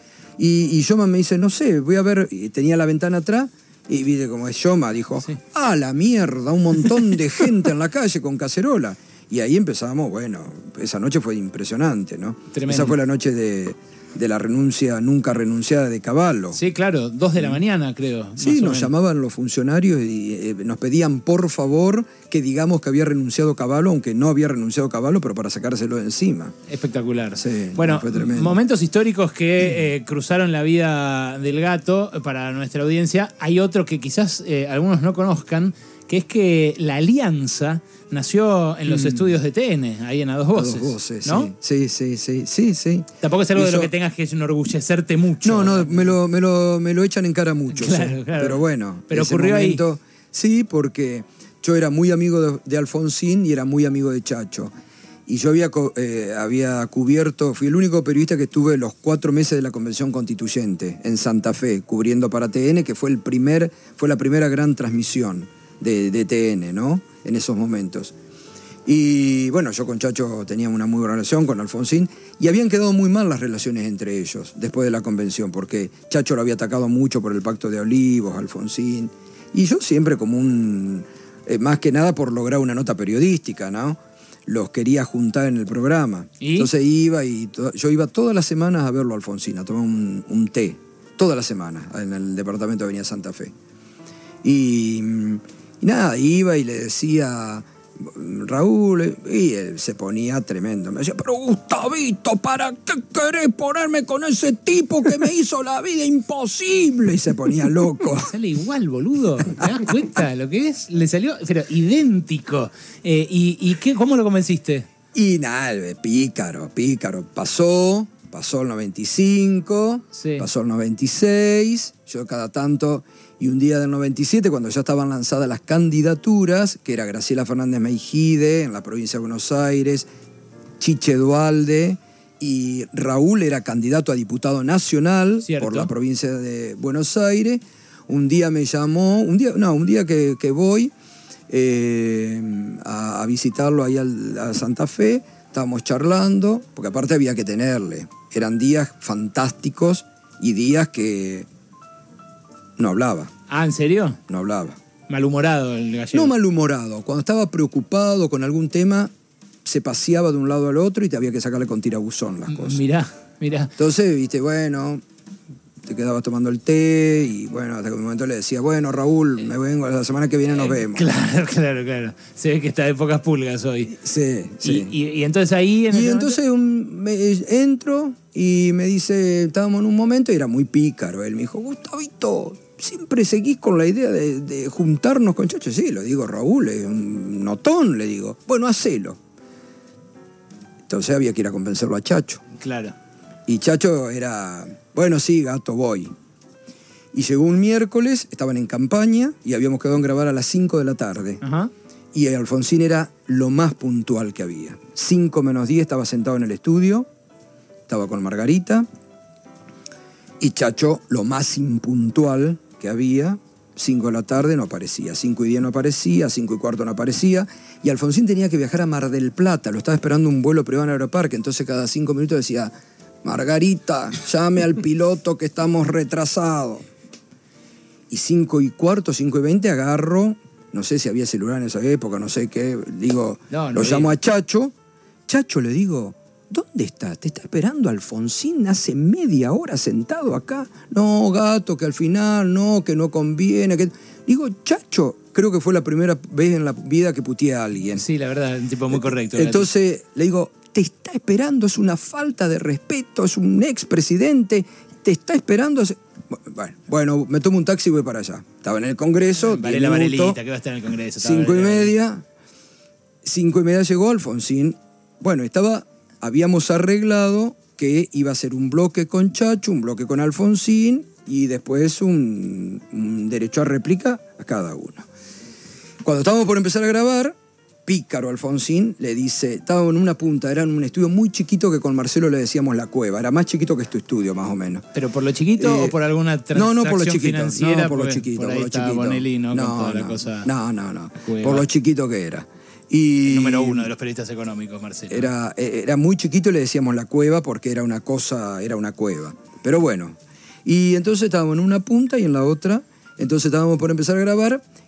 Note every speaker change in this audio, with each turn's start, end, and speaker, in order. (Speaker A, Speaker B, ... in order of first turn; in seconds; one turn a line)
Speaker A: 0.4-16.6
Speaker B: 12.5-13.0
Speaker B: 16.5-18.9
Speaker A: 18.4-26.6
Speaker B: 26.7-41.5
Speaker A: 27.4-28.6
Speaker A: 38.9-39.4
Speaker A: 40.5-43.9
Speaker B: 43.2-46.1
Speaker A: 45.4-54.7
Speaker B: 47.7-49.8
Speaker A: 55.3-68.1
Speaker A: 68.9-93.5
Speaker B: 86.4-86.7
Speaker A: 94.4-108.3
Speaker B: 108.2-114.9
Speaker A: 115.1-130.1
Speaker B: 120.1-120.5
Speaker A: 130.8-140.9
Speaker B: 135.4-135.9
Speaker A: 141.5-151.5
Speaker A: 152.8-153.3
Speaker B: 153.5-154.2
Speaker A: 154.3-154.8
Speaker B: 155.1-156.3
Speaker A: 156.1-159.1
Speaker A: 159.7-162.8
Speaker B: 162.5-163.7
Speaker A: 163.8-165.0
Speaker A: 165.8-171.1
Speaker B: 170.5-173.9
Speaker A: 173.9-174.9
Speaker B: 174.6-176.4
Speaker A: 175.9-189.2
Speaker A: 190.9-192.4
Speaker B: 192.6-192.9
Speaker A: 193.5-196.1
Speaker A: 197.1-201.4
Speaker B: 201.4-201.7
Speaker A: 202.1-207.1
Speaker A: 207.9-208.9
Speaker A: 210.4-222.7
Speaker A: 223.2-226.9
Speaker A: 228.1-234.7
Speaker B: 233.5-234.2
Speaker A: 235.3-248.1
Speaker B: 248.0-249.7
Speaker A: 248.9-260.4
Speaker B: 259.4-261.9
Speaker A: 261.2-262.2
Speaker A: 263.2-275.1
Speaker A: 276.0-284.9
Speaker B: 284.9-290.5
Speaker A: 285.6-286.0
Speaker A: 286.5-293.9
Speaker B: 291.2-291.7
Speaker B: 293.2-295.3
Speaker A: 295.1-304.6